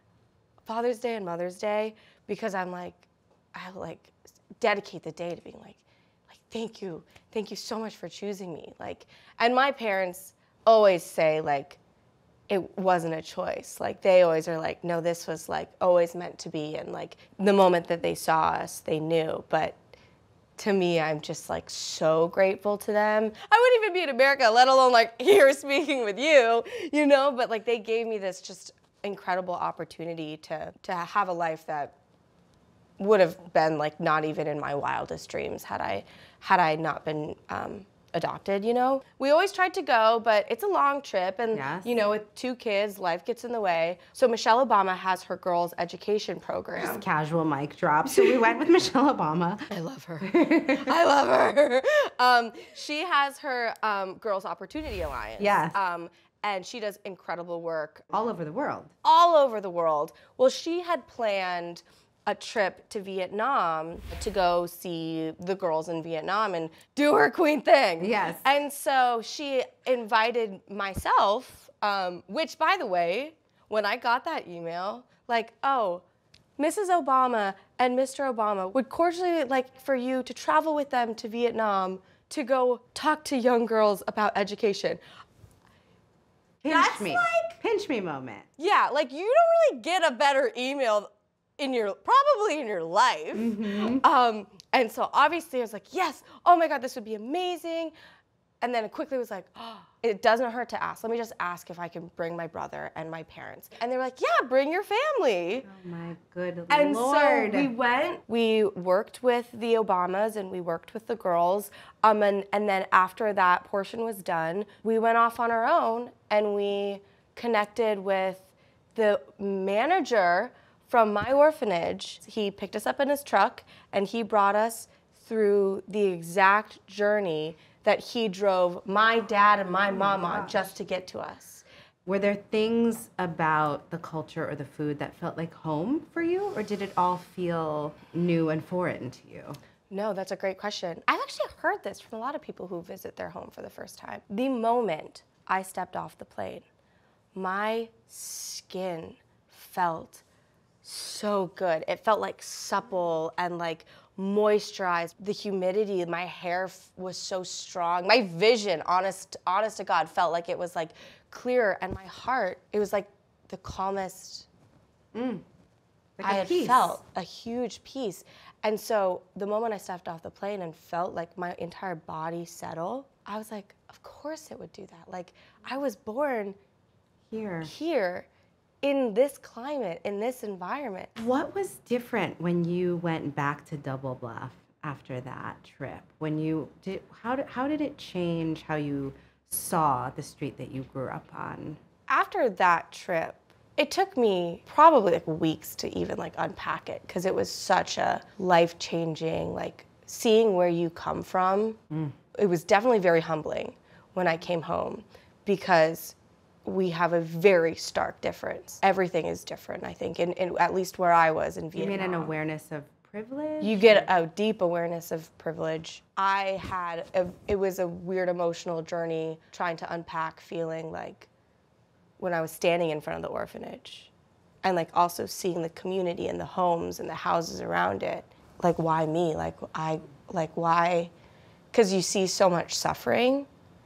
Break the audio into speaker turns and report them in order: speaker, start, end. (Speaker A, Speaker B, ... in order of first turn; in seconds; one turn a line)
Speaker A: 0.7-11.8
Speaker A: 12.5-19.8
Speaker A: 20.6-31.9
Speaker A: 33.0-47.0
Speaker B: 41.5-41.9
Speaker B: 46.8-49.7
Speaker A: 49.7-58.1
Speaker B: 50.2-51.0
Speaker B: 55.4-55.8
Speaker B: 58.1-58.9
Speaker A: 59.0-76.0
Speaker B: 68.0-68.5
Speaker A: 76.6-85.0
Speaker B: 86.6-88.5
Speaker A: 86.7-87.6
Speaker A: 88.6-97.9
Speaker B: 93.3-94.0
Speaker A: 98.6-105.7
Speaker B: 105.7-107.7
Speaker A: 106.7-131.7
Speaker B: 129.9-130.7
Speaker B: 132.1-139.6
Speaker A: 139.9-146.7
Speaker A: 147.3-150.2
Speaker A: 150.8-164.5
Speaker B: 165.1-165.4
Speaker B: 166.2-167.0
Speaker A: 166.2-176.6
Speaker B: 177.3-177.7
Speaker A: 177.6-178.3
Speaker A: 178.8-181.1
Speaker B: 181.2-191.8
Speaker A: 192.1-201.8
Speaker B: 201.9-202.2
Speaker A: 202.3-212.3
Speaker B: 211.8-214.1
Speaker A: 213.6-221.3
Speaker A: 222.2-224.1
Speaker A: 224.6-231.1
Speaker A: 231.7-233.5